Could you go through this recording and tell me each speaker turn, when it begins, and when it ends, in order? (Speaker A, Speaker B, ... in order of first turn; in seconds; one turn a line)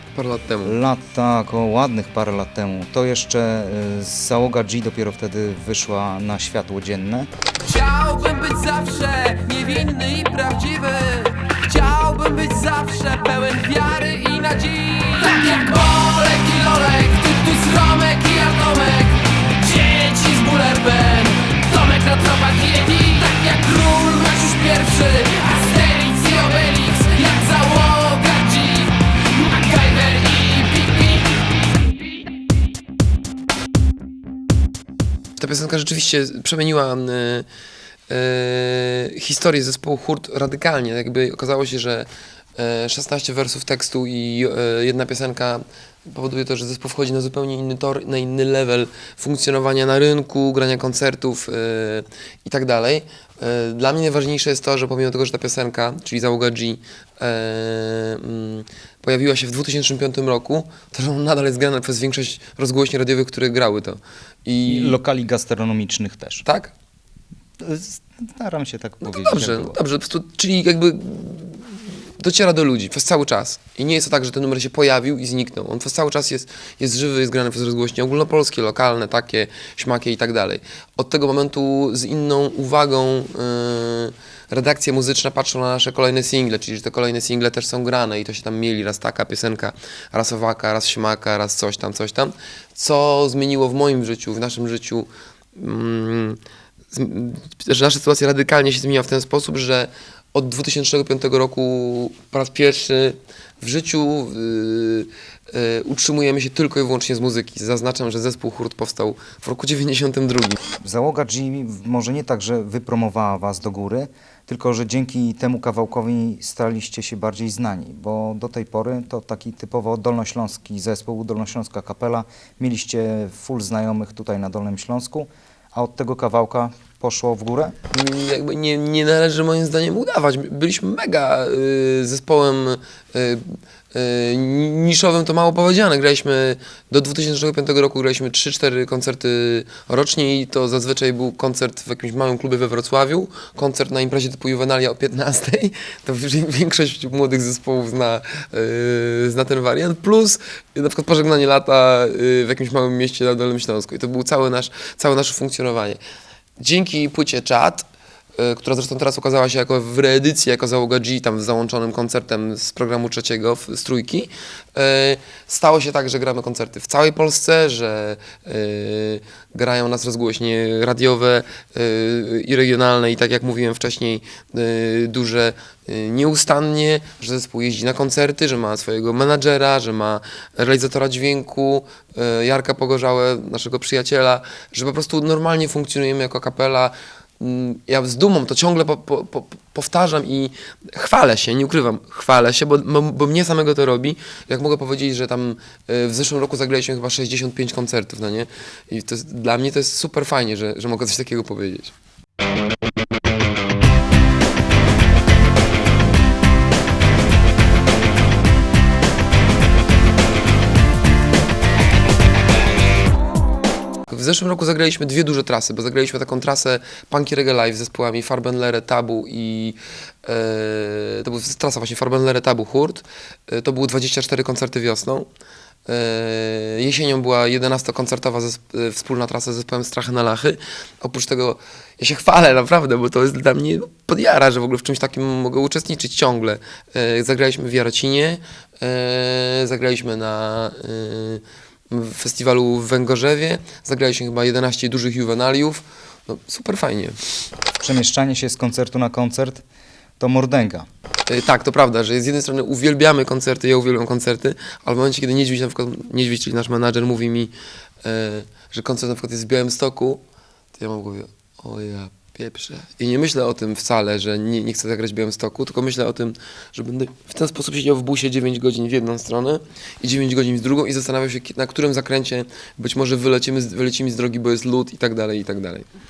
Speaker A: 0.1-0.8
Speaker B: 0.6-7.3
Speaker A: 7.7-24.6
Speaker C: 21.4-31.3
Speaker A: 27.3-28.2
Speaker A: 35.4-37.5
Speaker A: 38.1-65.0
Speaker B: 64.7-66.4
Speaker A: 66.4-66.7
Speaker B: 67.6-69.8
Speaker A: 69.0-96.4
Speaker A: 96.9-110.6
Speaker B: 110.8-127.8
Speaker A: 127.9-156.0
Speaker A: 156.6-157.9
Speaker A: 158.4-201.9
Speaker A: 214.1-225.3
Speaker A: 225.9-247.2
Speaker B: 247.8-249.6
Speaker B: 250.2-250.9
Speaker A: 251.3-260.2
Speaker A: 260.8-275.8